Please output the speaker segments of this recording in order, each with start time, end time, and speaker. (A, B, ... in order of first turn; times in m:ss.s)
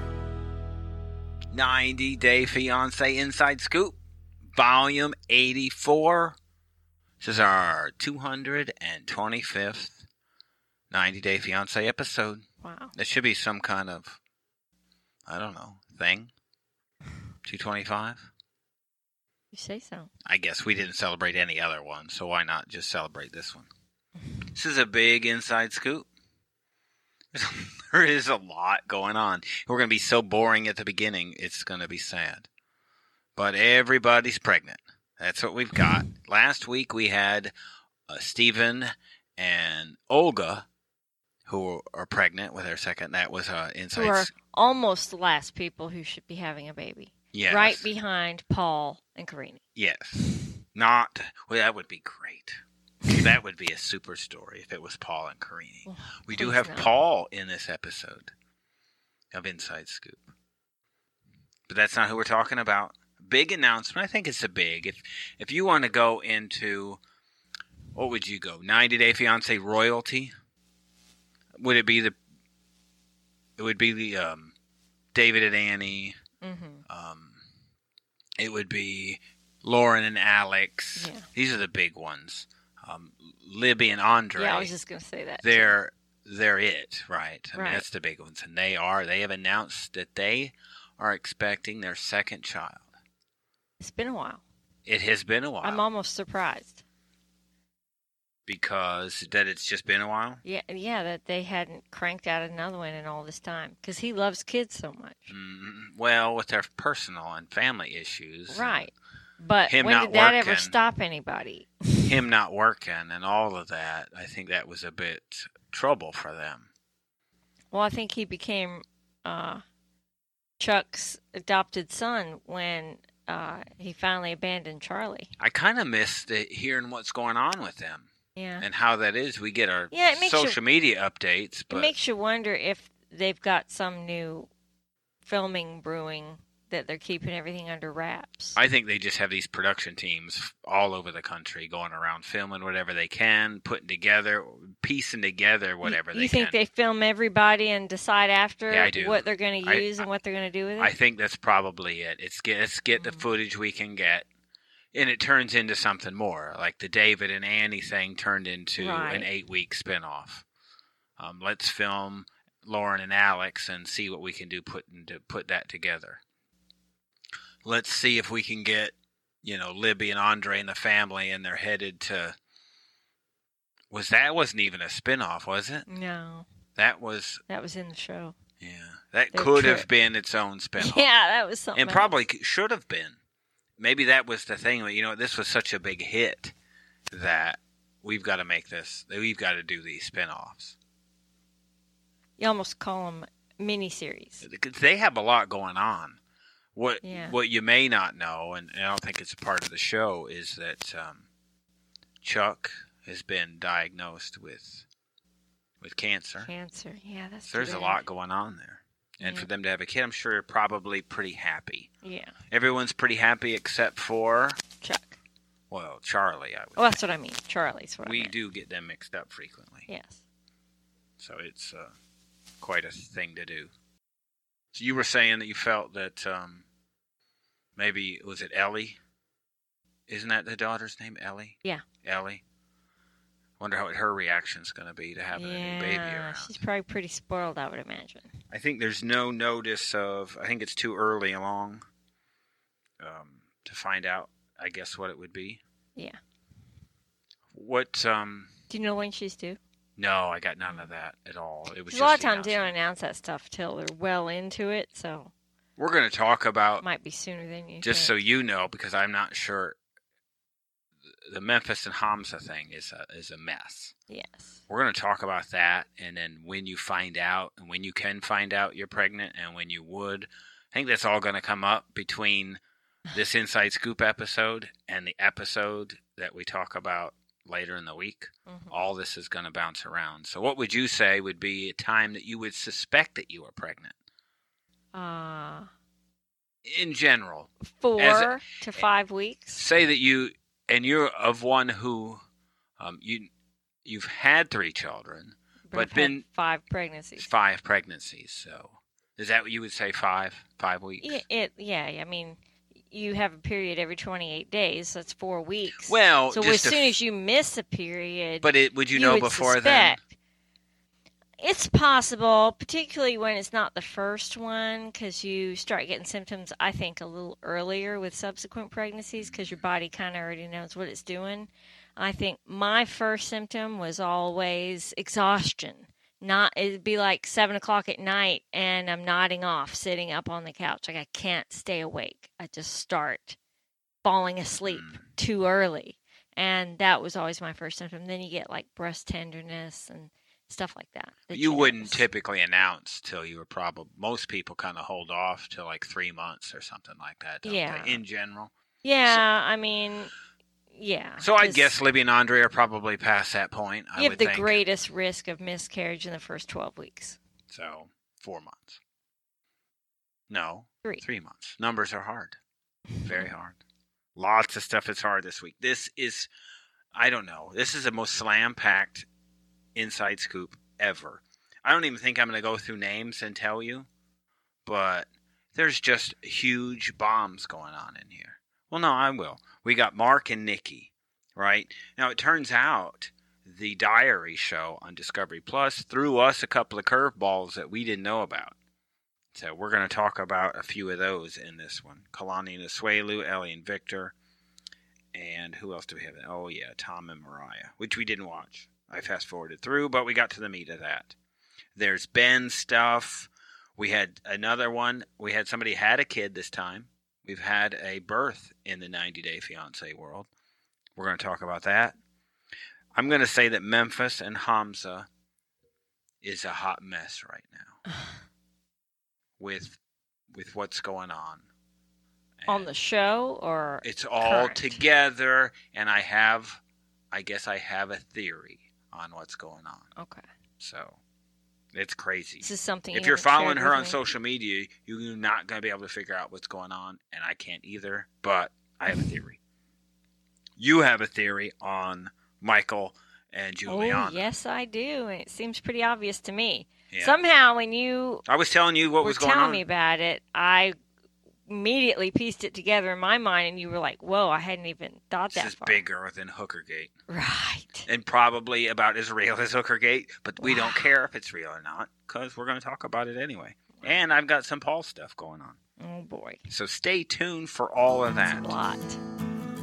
0:01.5-0:04.0 A
0:04.5-0:06.4 A
0:07.2-0:10.0 A
0:10.9-0:12.4 A
0:12.6-0:12.9 B
0:13.0-0:14.2 A
0:15.3-0:16.3 A
0:17.4-0:18.3 A
0:19.5-0:20.1 B
0:20.2-0:23.7 A
0:24.5-0:26.1 A
0:27.3-0:32.5 A
0:33.4-0:37.5 A
0:38.1-0:40.6 A
0:41.4-0:44.3 A
0:43.9-0:49.6 B
0:47.3-0:47.9 A
0:49.8-0:58.3 A
0:55.8-0:56.9 B
0:59.3-1:00.3 A
1:01.7-1:07.0 A
1:07.9-1:10.3 A
1:11.6-1:12.2 A
1:13.6-1:14.5 A
1:15.1-1:16.1 A
1:16.4-1:16.8 B
1:16.9-1:17.4 A
1:18.4-1:24.7 A
1:21.0-1:21.2 B
1:24.4-1:25.7 B
1:25.4-1:32.9 A
1:27.5-1:27.8 B
1:33.8-1:34.4 B
1:34.8-1:35.8 A
1:35.6-1:36.8 B
1:38.5-1:40.4 A
1:40.4-1:45.3 B
1:45.3-1:48.8 A
1:48.5-1:52.1 B
1:49.7-1:50.8 A
1:52.0-1:56.7 A
1:57.7-1:59.6 B
2:00.6-2:05.3 B
2:05.4-2:08.1 A
2:08.4-2:08.6 B
2:08.6-2:11.9 A
2:09.9-2:10.6 B
2:11.7-2:14.5 B
2:15.2-2:18.6 B
2:18.6-2:26.6 A
2:25.8-2:30.9 B
2:28.7-2:30.0 A
2:30.8-2:34.2 A
2:33.0-2:33.2 B
2:34.9-2:40.4 A
2:38.8-2:39.3 B
2:41.2-2:46.2 A
2:47.6-2:52.4 A
2:53.9-2:55.9 A
2:55.9-2:56.4 B
2:56.8-2:57.4 A
2:57.5-2:58.4 B
2:58.6-3:01.0 A
2:59.3-2:59.9 B
3:00.8-3:02.2 B
3:01.7-3:03.2 A
3:03.8-3:06.5 A
3:07.1-3:10.8 A
3:12.4-3:14.4 B
3:14.4-3:16.2 A
3:16.7-3:21.3 A
3:17.0-3:17.4 B
3:22.2-3:24.8 A
3:25.8-3:26.5 A
3:26.4-3:28.0 B
3:27.5-3:31.9 A
3:29.2-3:29.5 B
3:32.0-3:32.3 B
3:32.5-3:34.6 A
3:34.8-3:35.2 B
3:35.7-3:37.0 A
3:36.8-3:38.3 B
3:38.0-3:39.9 A
3:39.9-3:40.2 B
3:41.2-3:41.9 A
3:42.6-3:43.7 A
3:44.7-3:46.6 A
3:47.8-3:49.0 A
3:50.1-3:52.4 A
3:53.6-3:56.6 A
3:55.3-3:58.3 B
3:58.5-4:01.8 A
4:03.0-4:05.6 A
4:07.5-4:08.5 A
4:08.7-4:09.6 B
4:10.0-4:12.7 A
4:11.9-4:15.3 B
4:15.8-4:16.8 A
4:16.8-4:18.2 B
4:17.8-4:19.8 A
4:21.3-4:23.9 A
4:24.1-4:24.6 B
4:24.7-4:32.6 A
4:33.1-4:43.9 A
4:38.5-4:38.8 B
4:44.9-4:45.7 B
4:46.6-4:48.8 A
4:47.6-4:49.6 B
4:49.5-4:52.2 A
4:52.8-4:53.3 A
4:53.8-4:56.2 A
4:55.7-4:57.3 B
4:57.2-5:01.2 A
5:01.0-5:10.1 B
5:05.8-5:07.0 A
5:08.4-5:10.0 A
5:11.4-5:33.4 B
5:19.2-5:19.6 A
5:34.0-5:42.0 B
5:34.6-5:35.0 A
5:41.3-5:48.5 A
5:47.4-5:48.0 B
5:48.8-5:50.1 B
5:50.7-5:51.7 B
5:51.2-5:54.6 A
5:54.0-5:57.2 B
5:57.5-5:58.8 A
6:00.3-6:02.4 A
6:02.9-6:03.3 B
6:03.0-6:03.6 A
6:04.2-6:06.3 A
6:06.9-6:09.0 A
6:09.7-6:13.9 A
6:14.6-6:28.6 A
6:29.3-6:34.1 A
6:35.1-6:41.2 A
6:41.8-6:50.3 A
6:51.0-6:52.0 A
6:53.0-6:55.1 A
6:56.2-6:57.8 A
6:57.9-6:58.1 B
6:59.4-6:59.8 A
7:00.3-7:01.4 A
7:02.4-7:02.7 A
7:02.5-7:04.8 B
7:03.8-7:06.6 A
7:07.1-7:09.8 A
7:10.0-7:10.2 B
7:10.6-7:11.0 A
7:11.7-7:19.4 A
7:12.4-7:14.0 B
7:20.6-7:24.2 A
7:23.6-7:28.2 B
7:26.9-7:27.2 A
7:28.2-7:29.6 A
7:29.0-7:30.7 B
7:31.5-7:35.8 B
7:35.3-7:36.9 A
7:37.1-7:37.9 B
7:37.9-7:45.6 A
7:40.4-7:40.9 B
7:45.8-7:46.4 B
7:46.5-7:48.6 A
7:48.3-7:49.0 B